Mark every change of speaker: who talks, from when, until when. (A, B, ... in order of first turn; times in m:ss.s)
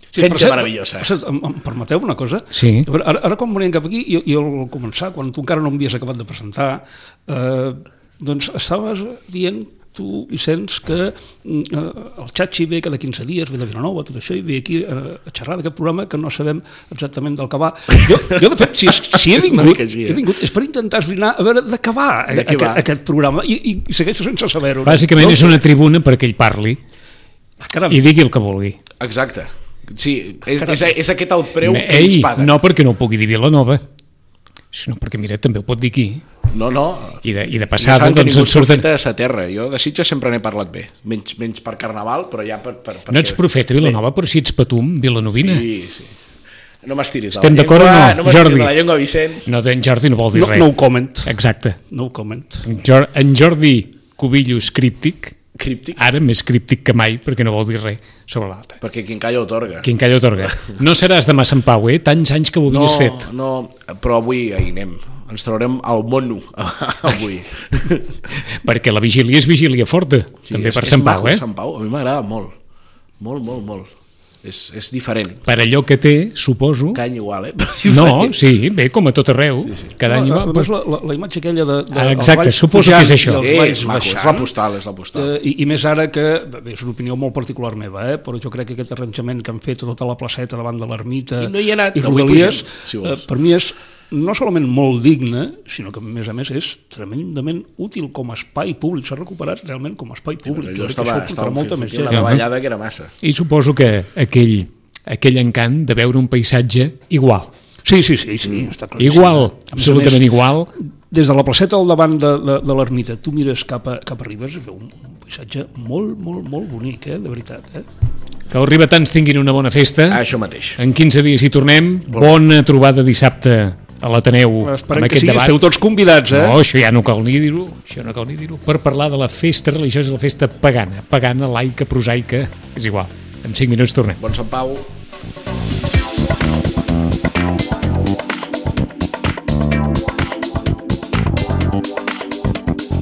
0:00.1-0:25.6 A
0:00.2-0:01.1 B
0:02.5-0:02.9 C
0:19.1-0:20.2 B
0:22.3-0:22.9 B
0:24.8-0:26.8 C
0:25.2-0:25.6 B
0:27.6-0:28.0 A
0:27.9-0:28.8 C
0:29.0-0:32.5 B
0:31.6-0:33.8 C
0:34.7-0:36.2 C
0:36.5-0:37.2 B
0:37.2-0:38.8 C
0:37.8-0:44.0 B
0:43.1-0:45.6 C
0:45.4-0:46.2 B
0:46.8-0:49.5 B
0:47.4-0:48.7 C
0:49.5-0:50.7 C
0:50.3-0:51.3 A
0:51.2-0:51.8 C
0:51.9-0:52.7 A
0:52.6-0:55.4 C
0:55.6-0:56.0 B
0:56.0-0:58.8 C
0:58.8-0:59.9 B
0:59.8-1:03.3 C
1:00.4-1:00.8 B
1:02.7-1:08.1 B
1:08.6-1:11.4 C
1:10.5-1:12.6 B
1:13.2-1:13.9 B
1:14.4-1:15.4 B
1:15.5-1:17.0 C
1:16.9-1:18.4 B
1:17.9-1:20.7 C
1:20.0-1:24.5 A
1:21.9-1:23.4 C
1:23.4-1:25.3 B
1:25.2-1:42.3 A
1:31.4-1:33.3 B
1:40.5-1:43.1 B
1:42.1-1:42.5 C
1:43.2-1:47.5 C
1:47.8-1:50.3 A
1:49.0-1:50.7 C
1:51.1-1:57.9 A
1:58.5-2:00.2 C
2:00.1-2:00.8 B
2:00.8-2:05.6 C
2:02.1-2:02.4 B
2:04.6-2:06.6 A
2:06.3-2:14.2 C
2:14.2-2:14.9 B